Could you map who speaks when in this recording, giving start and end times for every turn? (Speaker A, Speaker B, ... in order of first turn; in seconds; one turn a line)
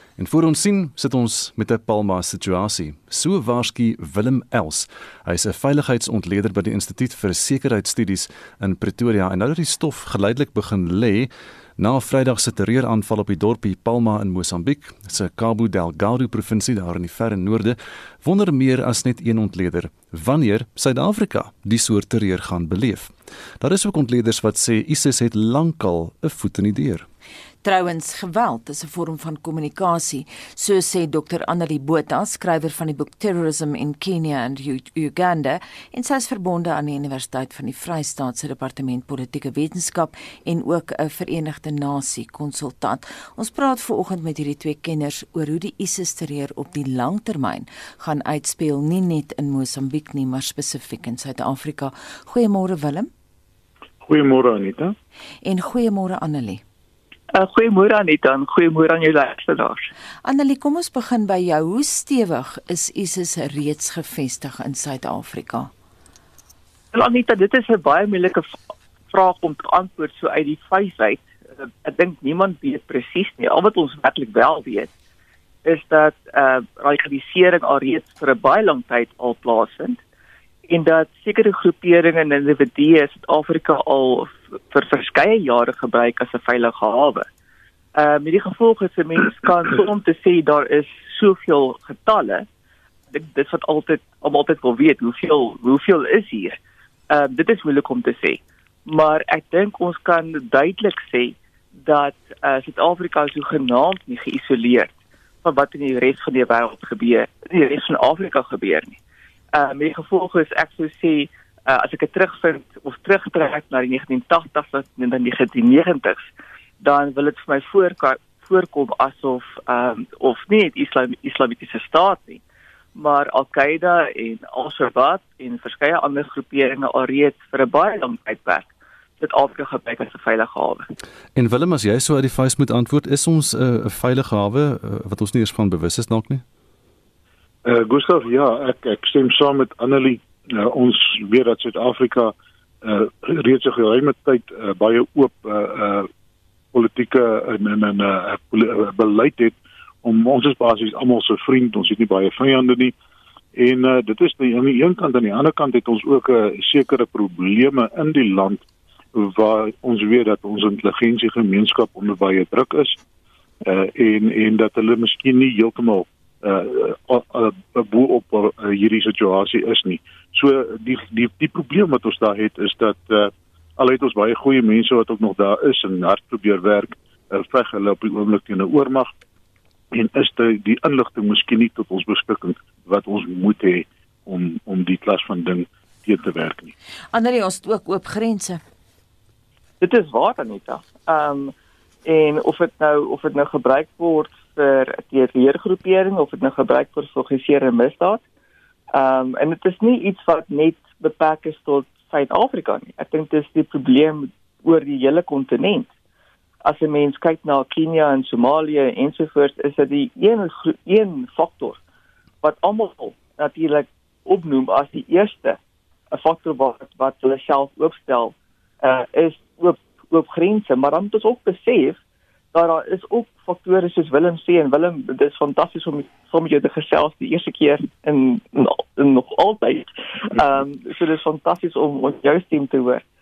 Speaker A: 0.2-27.1
Speaker B: 27.6-53.1
Speaker C: 54.0-54.9
Speaker B: 55.4-56.6
Speaker D: 57.3-59.9
Speaker B: 60.2-65.7
Speaker D: 66.9-68.5
Speaker D: 69.1-74.9
Speaker D: 75.6-80.0
Speaker D: 80.7-87.2
Speaker D: 88.0-92.5
Speaker D: 93.1-96.6
Speaker D: 97.1-109.0
Speaker D: 109.5-116.2
Speaker D: 116.8-122.4
Speaker D: 122.9-128.7
Speaker D: 129.2-130.8
Speaker A: 131.3-136.4
Speaker C: 137.6-146.1
Speaker C: 146.7-152.9
Speaker C: 153.5-163.0
Speaker C: 163.6-179.1
Speaker C: 179.9-186.7
Speaker B: 187.1-188.6
Speaker D: 189.8-191.5
Speaker D: 192.0-198.2
Speaker D: 198.9-205.9
Speaker D: 206.6-211.8
Speaker D: 212.4-215.6
Speaker D: 216.1-222.0
Speaker D: 222.5-233.0